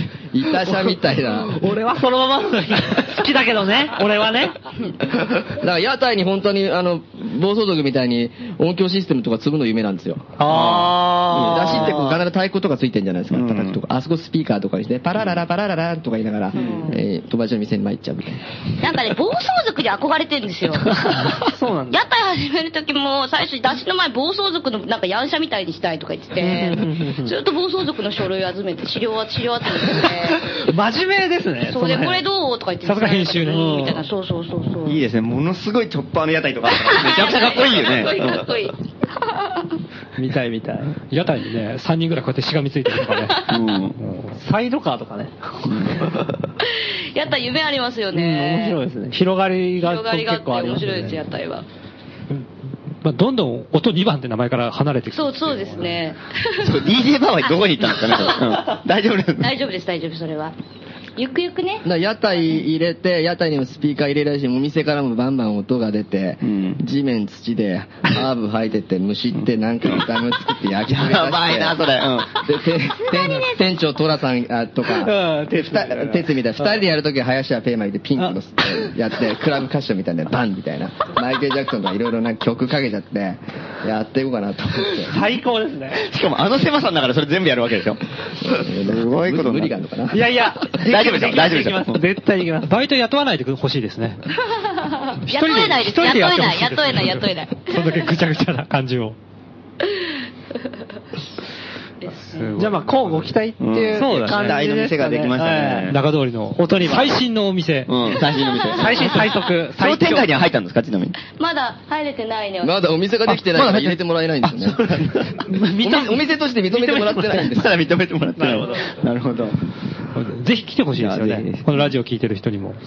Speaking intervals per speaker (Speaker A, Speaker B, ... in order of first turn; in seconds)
Speaker A: 0.3-1.6, 5.5-10.3, 11.3-18.4, 61.8-71.9, 72.4-85.2, 88.4-90.2, 112.6-114.9, 115.8-117.7
Speaker B: 1.4-4.6, 10.4-12.1, 16.5-16.9, 20.9-22.0, 26.4-27.3, 29.9-32.2, 33.5-34.0, 40.2-41.0, 44.4-46.1, 48.1-51.1, 74.9-76.7, 85.1-86.0, 90.1-92.7, 102.6-105.9, 106.6-107.1, 108.7-110.3, 115.5-117.5, 118.4-118.9
Speaker C: 10.4-12.2, 13.3-13.8, 34.9-38.5, 43.5-44.0, 45.7-46.2, 56.6-59.5, 66.4-66.8, 70.8-72.4, 86.0-89.8, 90.8-92.0, 103.6-106.0, 107.9-111.2, 113.3-115.5, 117.3-119.6, 121.0-121.9
Speaker D: 16.6-16.9, 18.8-30.6, 31.6-35.0, 36.8-39.8, 46.6-48.8, 49.8-51.7, 55.1-56.9, 57.5-58.6, 59.4-60.5, 61.2-61.8, 94.8-98.1, 102.0-102.5, 111.3-112.8
Speaker E: 32.8-33.9, 41.1-44.4, 53.0-56.0, 92.7-94.2, 95.2-99.2, 102.2-103.3, 104.0-104.6, 105.9-108.1, 120.1-122.8